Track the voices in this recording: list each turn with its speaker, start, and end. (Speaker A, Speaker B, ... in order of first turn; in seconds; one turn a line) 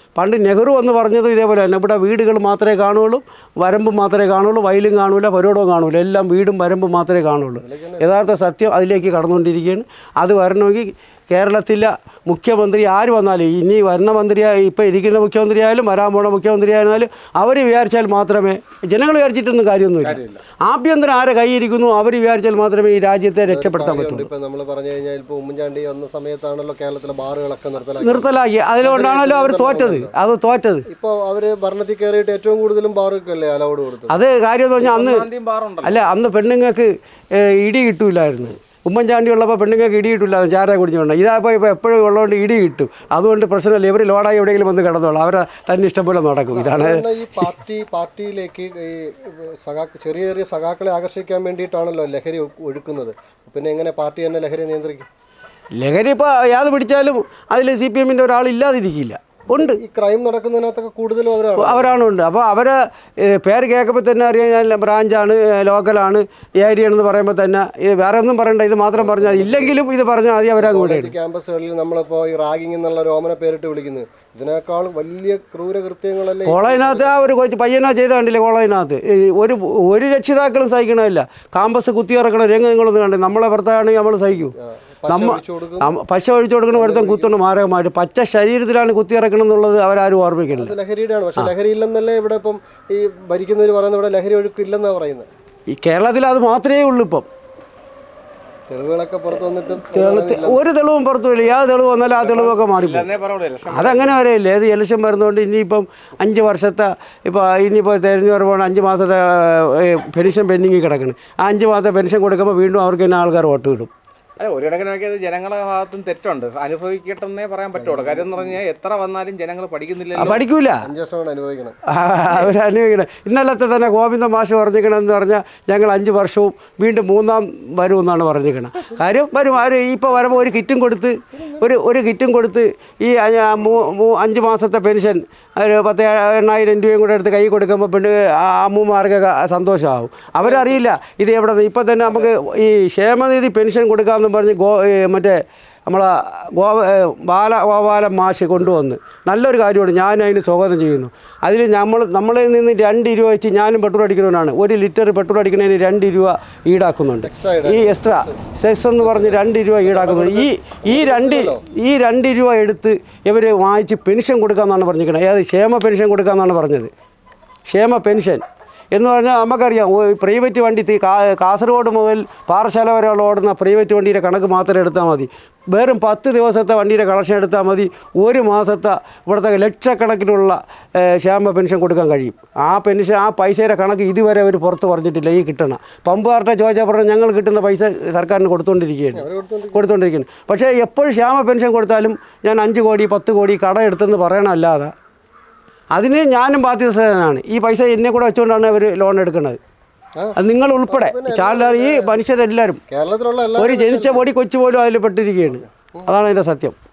Speaker A: 0.2-24.3
Speaker B: 7.6-8.1
Speaker C: 20.0-20.4
Speaker B: 23.5-30.1
Speaker A: 28.0-30.9
Speaker B: 30.9-34.2
Speaker A: 34.1-35.3
Speaker C: 34.8-36.1
Speaker A: 35.8-47.5
Speaker B: 46.5-55.1
Speaker A: 55.8-59.8
Speaker B: 59.5-62.0
Speaker A: 61.6-71.1
Speaker B: 68.9-69.8
Speaker B: 70.6-77.2
Speaker A: 76.5-84.5
Speaker B: 85.0-86.0
Speaker A: 85.1-90.7
Speaker B: 86.7-87.3
Speaker B: 90.5-95.3
Speaker A: 95.7-97.3
Speaker B: 98.7-100.6
Speaker A: 99.8-103.1
Speaker C: 102.2-104.2
Speaker A: 103.7-113.9
Speaker C: 114.4-120.4
Speaker B: 117.8-118.6
Speaker A: 120.2-120.9
Speaker B: 120.8-121.8
Speaker A: 121.9-166.9
Speaker B: 140.5-140.8
Speaker B: 157.2-158.4
Speaker B: 159.0-161.6
Speaker A: 167.7-194.9
Speaker B: 189.2-189.9
Speaker A: 195.9-199.6
Speaker B: 200.2-202.2
Speaker A: 200.4-202.8
Speaker B: 202.9-204.3
Speaker A: 203.6-206.8